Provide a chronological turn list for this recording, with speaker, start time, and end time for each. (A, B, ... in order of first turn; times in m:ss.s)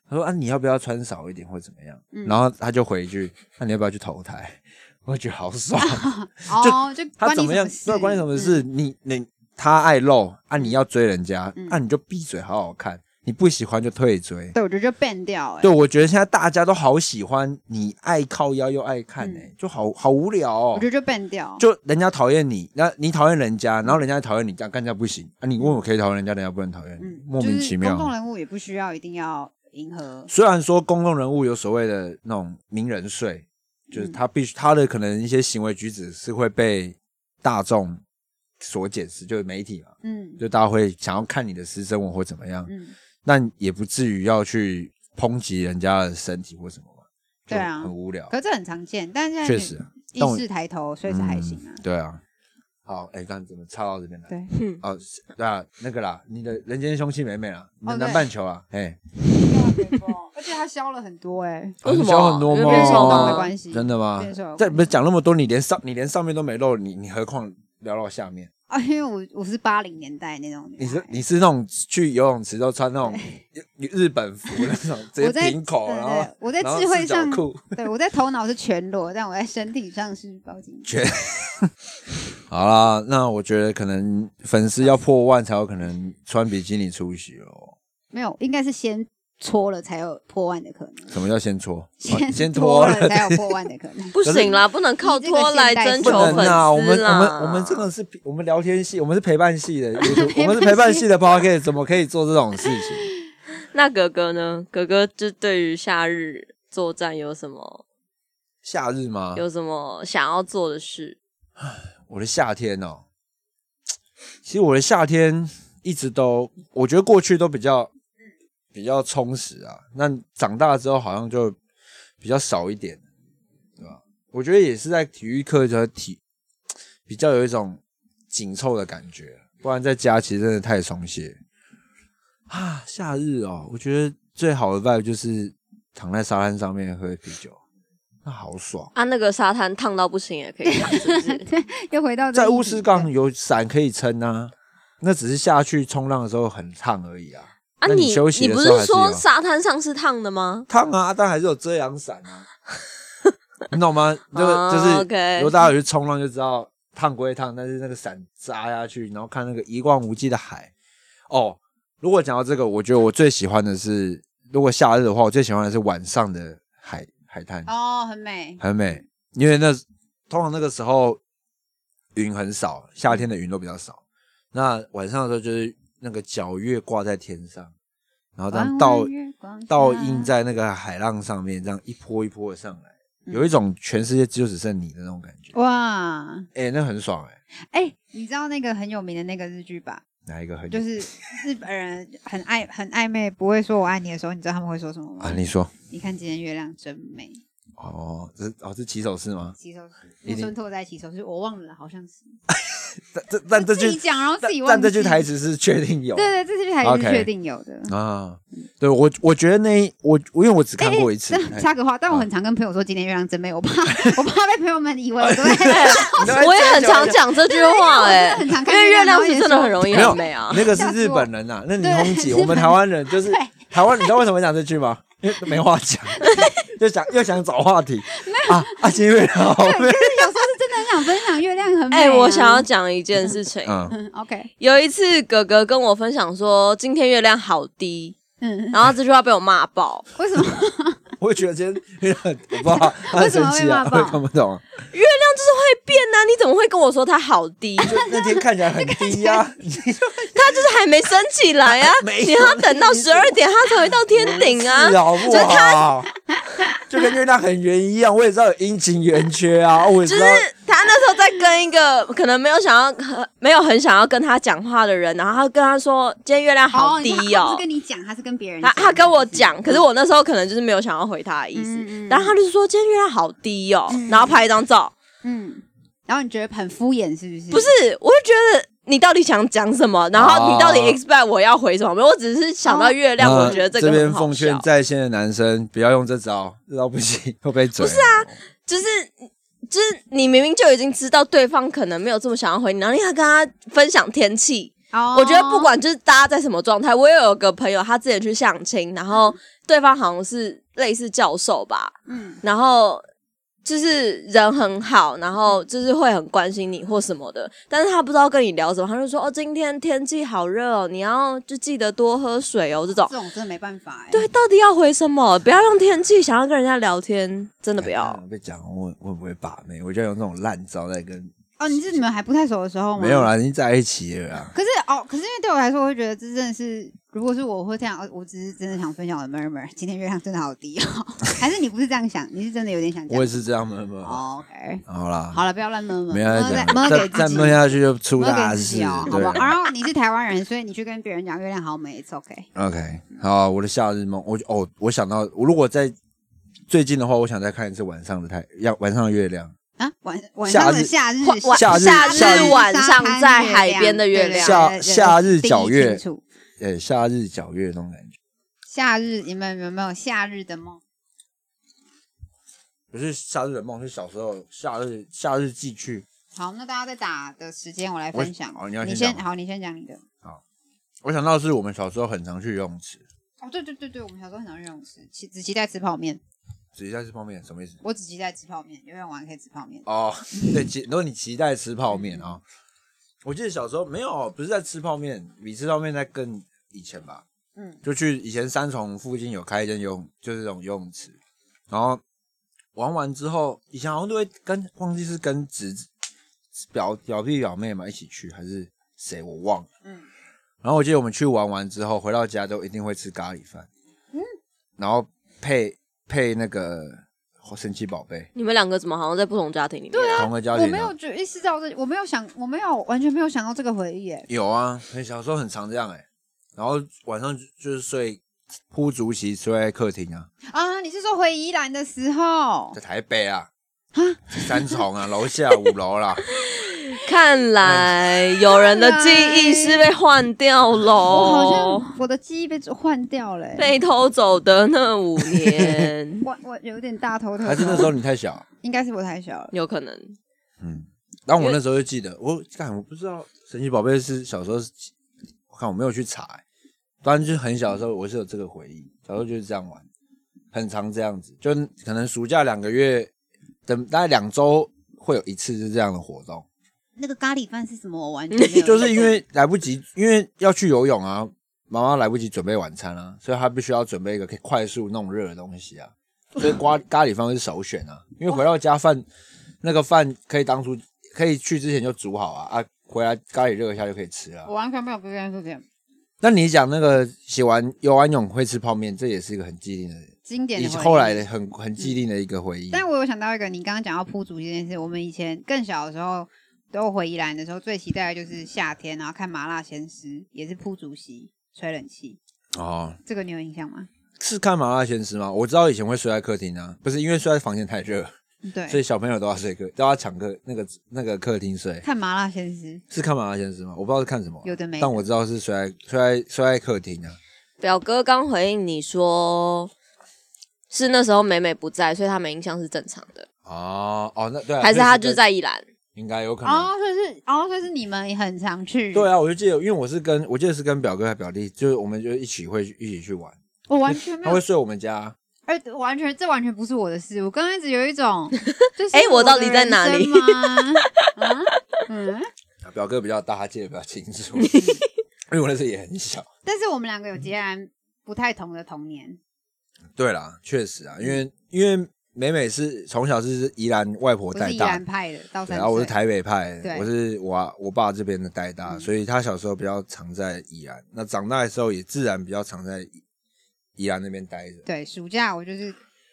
0:00.1-0:14.6 A
0:02.1-0:02.4 B
0:05.8-0:08.6 B
0:14.5-0:15.7 B
0:15.6-0:20.9 A
0:19.2-0:19.5 B
0:20.7-0:21.6 B
0:21.6-0:28.1 A
0:27.0-0:30.3 B
0:30.3-0:38.0 A
0:33.9-0:34.2 B
0:38.6-0:42.7 A
0:40.0-0:40.4 B
0:42.7-0:43.0 B
0:43.2-0:48.3 A
0:47.5-0:51.8 B
0:49.4-0:50.4 A
0:51.1-0:52.2 A
0:52.9-0:59.0 A
0:54.5-0:54.8 C
0:57.8-0:58.3 B
0:59.4-1:01.8 B
1:01.8-1:08.5 A
1:01.8-1:03.5 C
1:02.6-1:04.9 B
1:08.7-1:11.2 B
1:10.8-1:17.8 A
1:13.1-1:13.4 B
1:15.2-1:20.9 B
1:20.9-1:21.7 A
1:22.5-1:27.8 A
1:28.1-1:31.2 B
1:31.1-1:33.6 A
1:32.0-1:34.2 B
1:34.2-1:37.8 C
1:34.2-1:34.6 A
1:35.0-1:36.6 B
1:36.0-1:43.1 A
1:40.0-1:41.1 B
1:43.7-1:47.8 C
1:48.6-1:49.4 A
1:49.4-1:51.2 C
1:51.6-1:53.0 A
1:54.4-1:57.9 A
1:58.7-2:01.6 A
2:02.2-2:03.0 A
2:03.8-2:06.2 A
2:07.1-2:07.8 A
2:08.3-2:11.4 A
2:12.5-2:17.6 A
2:18.2-2:18.9 A
2:19.0-2:21.5 C
2:20.7-2:23.1 B
2:22.3-2:29.2 A
2:27.8-2:30.7 C
2:30.7-2:32.5 A
2:33.7-2:40.7 A
2:34.3-2:35.7 C
2:41.3-2:47.7 A
2:47.7-2:48.6 B
2:48.6-2:51.2 A
2:52.2-2:54.0 A
2:54.5-2:57.7 A
2:58.4-2:59.1 A
2:58.5-3:00.3 B
2:59.7-3:05.5 A
3:05.5-3:06.5 B
3:06.6-3:07.4 A
3:07.6-3:10.0 B
3:10.3-3:10.9 A
3:10.7-3:17.4 B
3:15.2-3:15.7 A
3:17.8-3:19.6 A
3:19.6-3:22.4 B
3:20.3-3:20.5 A
3:22.5-3:26.3 A
3:23.5-3:25.3 B
3:26.2-3:27.9 B
3:26.8-3:27.3 A
3:27.9-3:32.2 A
3:30.8-3:36.4 B
3:35.2-3:37.2 A
3:35.6-3:40.7 C
3:37.3-3:41.3 B
3:39.9-3:50.5 A
3:41.8-3:44.1 B
3:46.1-3:46.6 B
3:48.1-3:52.7 B
3:51.9-3:53.9 C
3:53.6-3:54.0 A
3:53.9-3:54.5 B
3:54.6-3:58.2 C
3:58.4-3:58.8 B
3:58.7-4:00.1 C
4:00.2-4:01.1 B
4:01.2-4:04.7 A
4:02.8-4:04.2 B
4:04.9-4:08.0 C
4:07.8-4:10.7 A
4:08.0-4:09.5 B
4:10.4-4:15.9 C
4:11.7-4:13.4 A
4:14.1-4:16.1 A
4:15.3-4:15.8 B
4:16.9-4:20.5 A
4:20.0-4:27.6 C
4:26.7-4:29.8 B
4:28.6-4:34.9 C
4:31.6-4:32.3 B
4:33.9-4:34.4 B
4:35.2-4:37.7 B
4:37.5-4:44.7 C
4:40.1-4:41.0 A
4:42.6-4:43.7 B
4:43.2-4:48.3 A
4:47.8-4:49.1 C
4:49.7-5:03.0 C
4:54.9-4:55.7 B
4:59.1-4:59.4 B
5:02.1-5:02.4 B
5:03.6-5:13.1 C
5:13.0-5:14.3 B
5:14.1-5:18.2 C
5:17.8-5:21.3 A
5:21.6-5:23.3 B
5:23.0-5:24.5 A
5:24.5-5:33.4 B
5:33.1-5:34.2 A
5:34.0-5:42.5 B
5:34.9-5:35.4 A
5:36.1-5:39.5 A
5:42.6-5:46.0 A
5:46.7-5:49.5 A
5:49.8-5:56.2 B
5:50.4-5:50.9 A
5:51.2-5:54.6 C
5:51.5-5:52.6 A
5:54.4-5:56.0 A
5:56.6-5:58.2 A
5:58.7-6:00.8 B
6:02.9-6:06.1 A
6:06.4-6:10.0 B
6:08.1-6:09.2 A
6:11.0-6:13.0 A
6:13.4-6:16.2 B
6:16.8-6:17.8 A
6:17.8-6:19.9 B
6:19.9-6:22.4 A
6:21.9-6:22.3 B
6:23.2-6:27.2 A
6:27.8-6:31.2 A
6:31.7-6:32.0 A
6:32.8-6:35.9 A
6:36.6-6:39.7 A
6:40.6-6:43.7 A
6:44.8-6:48.3 A
6:48.4-6:50.3 C
6:49.9-6:54.3 B
6:50.1-6:50.9 A
6:54.3-6:56.0 A
6:56.6-7:00.3 A
7:00.5-7:02.8 B
7:02.7-7:03.5 A
7:03.9-7:04.8 B
7:04.4-7:06.2 A
7:06.9-7:11.9 C
7:07.6-7:08.0 A
7:08.5-7:09.9 B
7:11.1-7:13.7 B
7:13.6-7:16.2 C
7:15.3-7:15.9 A
7:16.2-7:17.9 B
7:17.4-7:18.4 A
7:18.6-7:19.5 B
7:19.5-7:20.2 C
7:20.6-7:24.9 A
7:25.5-7:26.4 A
7:27.0-7:29.8 A
7:30.5-7:33.1 A
7:33.7-7:36.5 A
7:37.0-7:39.2 B
7:38.6-7:49.0 A
7:49.6-7:54.5 A
7:54.4-7:55.6 B
7:56.2-8:02.9 A
8:00.3-8:01.2 B
8:02.7-8:12.2 B
8:12.6-8:13.0 A
8:13.1-8:13.9 B
8:14.2-8:18.1 A
8:18.4-8:18.8 B
8:18.7-8:21.8 A
8:21.8-8:22.8 B
8:22.9-8:27.2 A
8:24.4-8:25.1 B
8:27.6-8:29.7 C
8:30.7-8:33.3 C
8:33.5-8:35.2 A
8:34.6-8:35.6 C
8:36.0-8:36.7 A
8:36.4-8:39.1 B
8:38.9-8:43.4 A
8:43.7-8:44.4 B
8:43.9-8:45.2 A
8:45.5-8:52.3 B
8:48.9-8:51.5 C
8:52.6-8:54.6 A
8:54.4-8:54.8 C
8:54.5-8:54.8 B
8:55.3-8:56.3 A
8:56.4-8:59.2 B
9:00.0-9:04.8 A
9:04.3-9:06.0 B
9:05.5-9:13.0 A
9:06.6-9:06.9 B
9:13.8-9:14.6 A
9:14.7-9:15.8 B